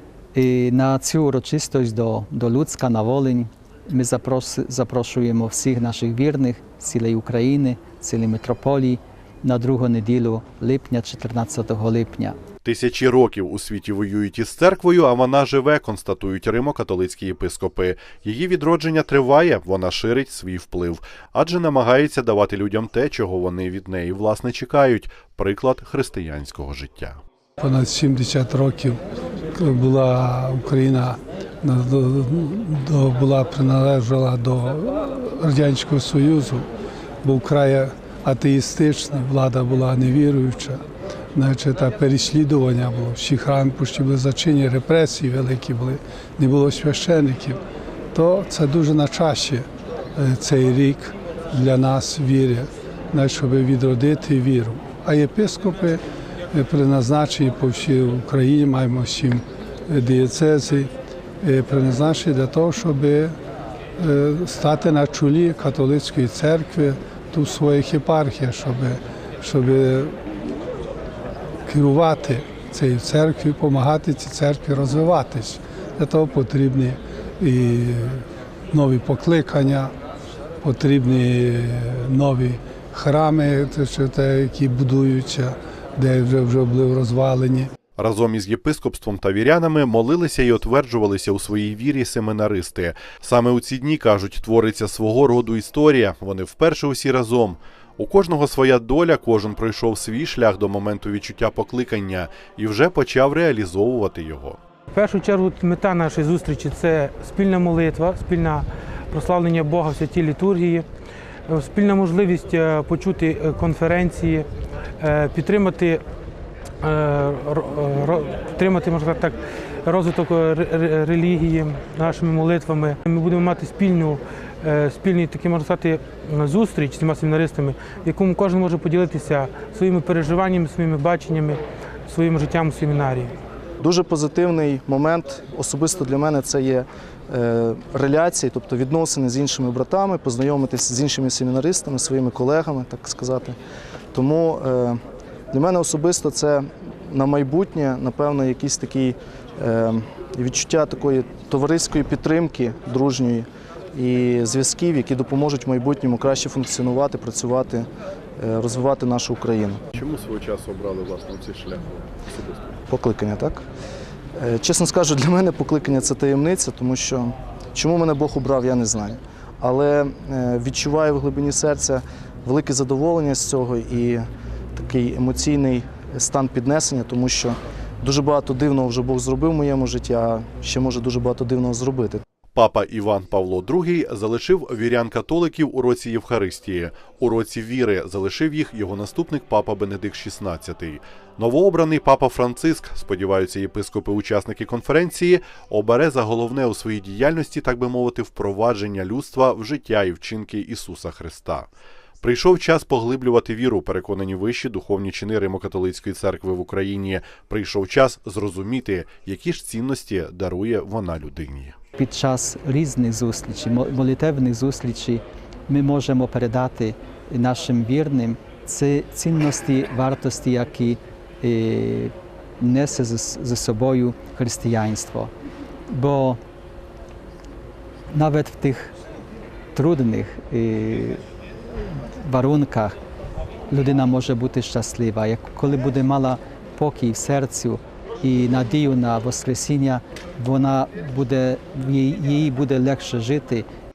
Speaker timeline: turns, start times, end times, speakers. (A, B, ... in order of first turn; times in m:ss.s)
0:00.3-0:12.4 A
0:12.6-0:27.2 B
0:27.6-0:29.0 C
0:29.6-0:36.7 C
0:37.2-0:40.8 C
0:41.3-0:47.6 C
0:48.1-0:56.0 C
0:56.5-1:00.9 C
1:01.4-1:03.4 C
1:04.0-1:10.6 C
1:11.7-1:19.9 C
1:20.6-1:27.7 C
1:28.0-1:44.6 B
1:44.9-1:50.8 D
1:51.5-1:54.5 D
1:55.0-1:56.0 D
1:56.8-2:13.3 D
2:13.8-2:23.6 E
2:24.1-2:25.0 E
2:25.5-2:37.9 E
2:38.4-2:39.8 E
2:40.0-2:42.8 B
2:42.9-2:43.7 E
2:44.4-3:02.2 E
3:02.5-3:21.7 B
3:22.2-3:31.8 B
3:32.0-3:45.3 A
3:45.9-3:46.4 A
3:48.1-3:48.9 A
3:49.8-3:51.2 A
3:52.0-3:53.0 A
3:53.7-4:03.7 A